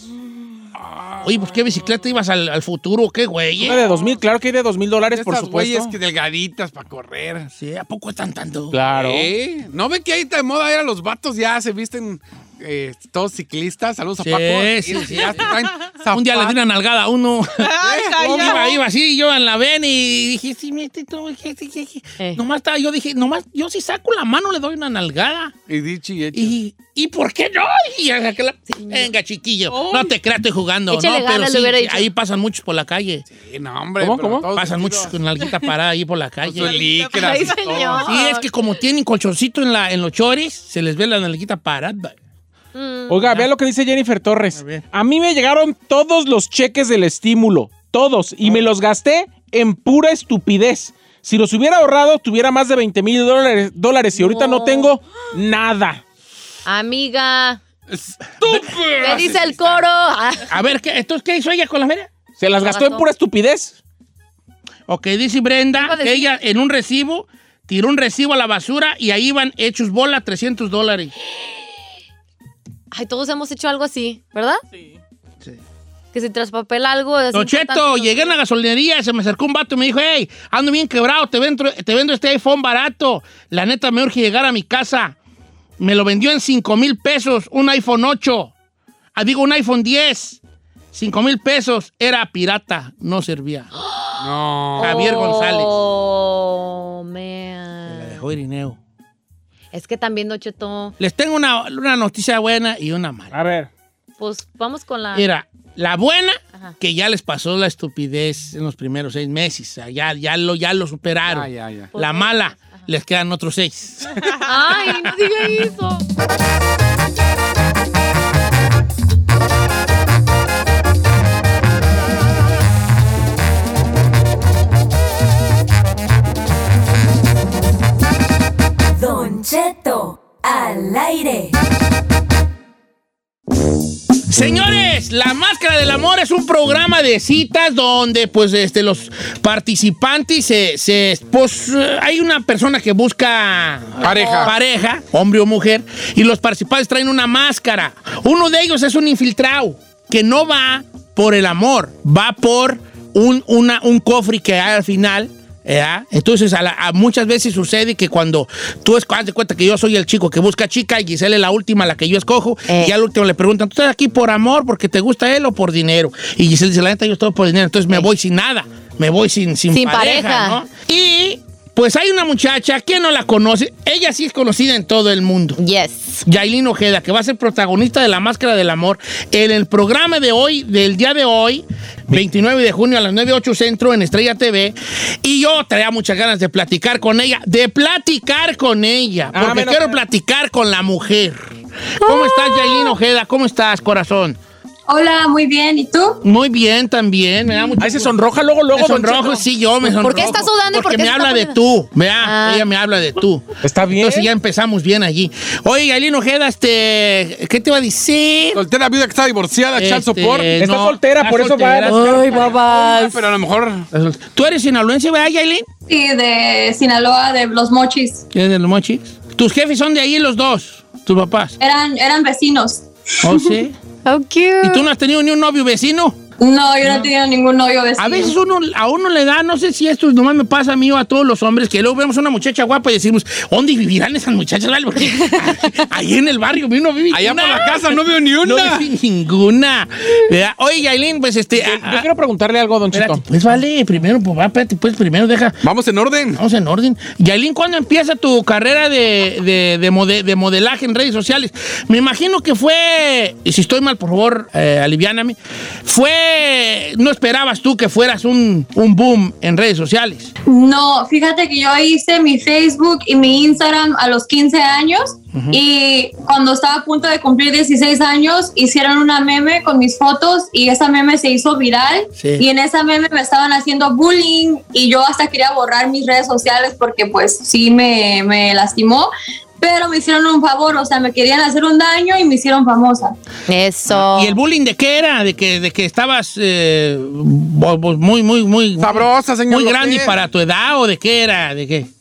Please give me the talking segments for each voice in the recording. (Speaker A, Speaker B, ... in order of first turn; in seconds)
Speaker A: 0.8-1.3, 5.0-7.5, 8.9-16.6, 17.8-18.7, 25.7-26.6, 33.3-35.1, 36.4-38.1, 57.9-59.8, 94.2-95.1, 111.3-111.9, 144.0-144.5, 208.5-210.5, 212.2-213.9, 237.1-238.9, 245.6-246.4, 288.8-290.1
Speaker B: 1.2-3.8, 7.5-8.8, 14.2-17.7, 18.3-25.5, 26.3-33.2, 34.5-36.8, 38.1-42.1, 44.5-44.9, 60.5-62.1, 64.9-71.2, 77.3-85.2, 85.8-88.5, 89.2-90.4, 90.9-93.7, 94.8-95.7, 97.9-98.8, 101.0-103.3, 105.1-114.1, 134.3-175.6, 176.2-191.4, 192.0-194.4, 196.2-198.1, 198.7-208.6, 209.8-212.5, 213.9-215.7, 218.3-221.6, 223.2-223.8, 224.6-226.2, 228.0-242.1, 242.9-245.6, 246.3-260.3, 265.3-265.6, 272.2-272.4, 283.9-291.9
Speaker C: 3.6-6.0, 8.7-9.3, 34.0-34.5, 43.1-56.0, 62.4-63.8, 103.3-103.7, 189.3-190.0, 197.8-199.4, 203.6-204.3, 210.6-212.0, 241.6-243.2
Speaker D: 17.6-18.8, 29.7-30.1, 36.6-38.1, 74.7-75.0
Speaker E: 28.7-29.1, 30.9-32.1, 37.1-38.4, 42.7-43.2, 54.1-54.9, 56.7-57.6, 59.0-60.5, 62.6-63.1, 65.8-66.3, 72.9-74.6, 76.1-78.3, 94.8-98.2, 99.7-101.0, 104.2-105.3, 111.9-112.3, 114.4-116.0, 144.2-144.5, 162.7-162.9, 169.7-170.6, 175.6-176.2, 192.0-192.9, 199.8-201.6, 202.2-202.7, 211.9-213.2, 224.1-224.8, 283.5-284.4
Speaker F: 129.0-131.5
Speaker G: 194.9-196.2, 215.9-218.2, 221.6-223.3, 226.4-228.3, 260.5-283.1